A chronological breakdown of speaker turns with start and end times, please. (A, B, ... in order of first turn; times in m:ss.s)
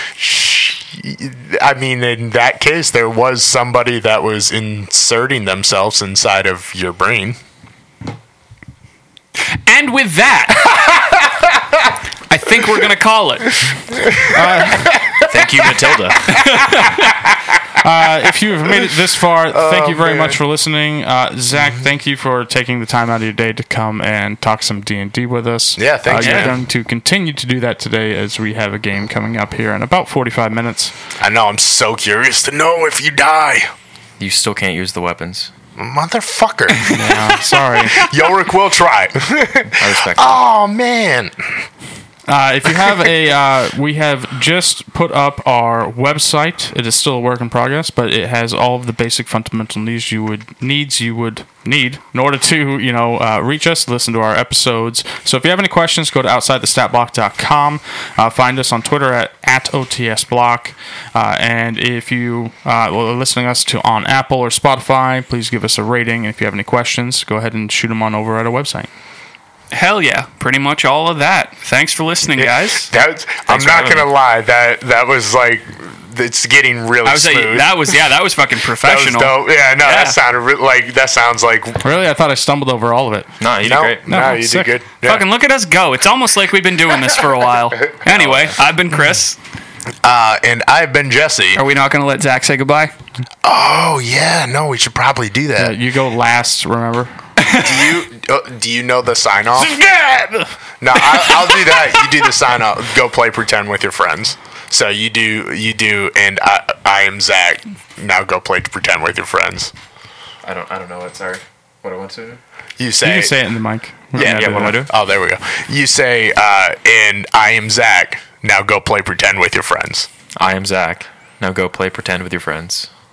0:00.2-0:07.4 A
0:09.4-0:10.9 B
0:12.3-0:13.7 B
0:13.9-0:14.4 A
0:14.3-0:15.0 C
0:15.3-0:16.5 D
0:16.3-0:17.2 B
0:17.8-0:30.9 C
0:19.5-0:20.4 A
0:25.8-0:26.6 A
0:26.2-0:26.5 B
0:31.2-0:33.7 A
0:34.2-0:35.5 D
0:35.8-0:37.0 A
0:36.7-0:37.4 B
0:36.9-0:38.1 C
0:37.9-0:41.3 A
0:39.8-0:40.4 D
0:42.3-1:08.9 C
1:09.7-1:12.9 B
1:12.4-1:17.9 A
1:13.5-1:14.1 D
1:17.0-1:20.2 B
1:18.8-1:21.8 A
1:21.8-1:23.3 C
1:23.4-1:24.3 D
1:23.6-1:25.2 A
1:24.0-1:24.7 C
1:25.0-1:29.4 B
1:28.0-1:28.6 D
1:30.0-1:31.6 A
1:31.5-1:32.9 B
1:33.4-1:35.7 A
1:35.6-1:37.1 C
1:37.4-1:37.9 B
1:37.5-1:40.3 A
1:40.8-1:49.7 A
1:50.4-1:52.4 D
1:52.8-1:53.3 A
1:53.0-1:54.8 C
1:54.1-2:00.1 A
1:54.2-1:54.9 D
2:00.4-2:02.9 D